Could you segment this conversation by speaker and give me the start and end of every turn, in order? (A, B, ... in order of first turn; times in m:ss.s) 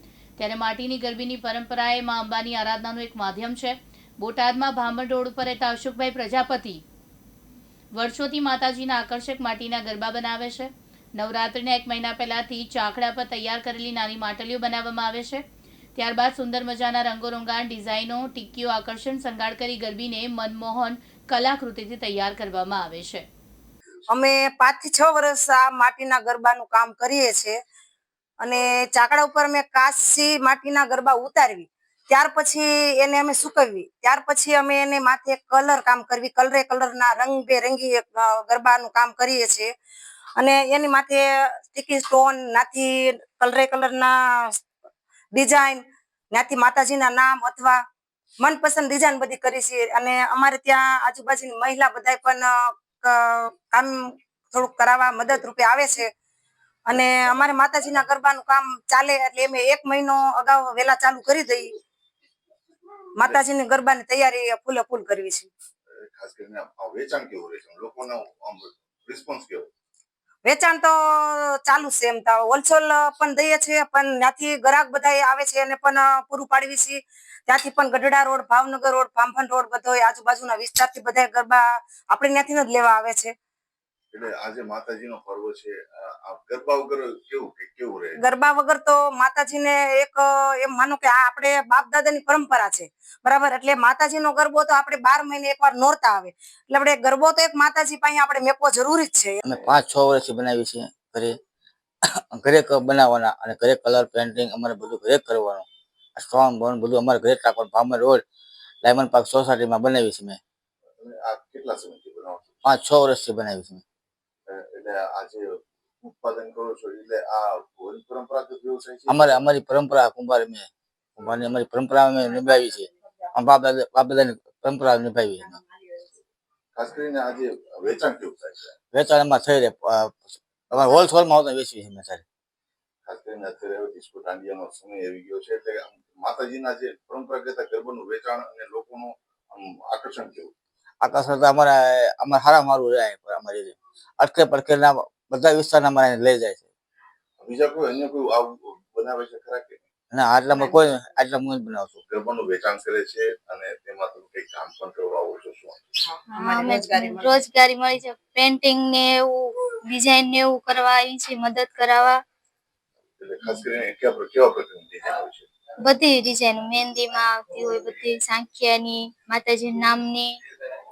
0:00.4-0:06.8 A
0:08.0-0:15.4 A
0:16.0-0:23.2 A
0:24.1-0:27.6 B
0:28.4-0:39.7 B
0:40.4-0:44.6 B
0:45.3-0:47.8 B
0:48.4-0:54.0 B
0:54.5-0:56.1 B
0:56.9-1:01.7 B
1:03.2-1:05.5 B
1:06.1-1:09.7 C
1:10.4-1:23.3 B
1:24.1-1:28.2 C
1:28.2-1:39.4 B
1:39.4-1:41.4 D
1:42.3-1:48.2 D
1:48.8-1:50.4 D
1:51.0-1:52.5 C
1:52.6-1:53.8 D
1:54.5-1:59.5 C
1:59.1-2:05.6 D
2:06.8-2:08.8 C
2:08.9-2:12.2 D
2:13.1-2:20.5 C
2:21.0-2:26.6 D
2:27.4-2:29.8 C
2:30.1-2:32.0 D
2:32.1-2:36.0 C
2:36.3-2:42.2 E
2:43.2-2:45.5 C
2:45.8-2:50.4 E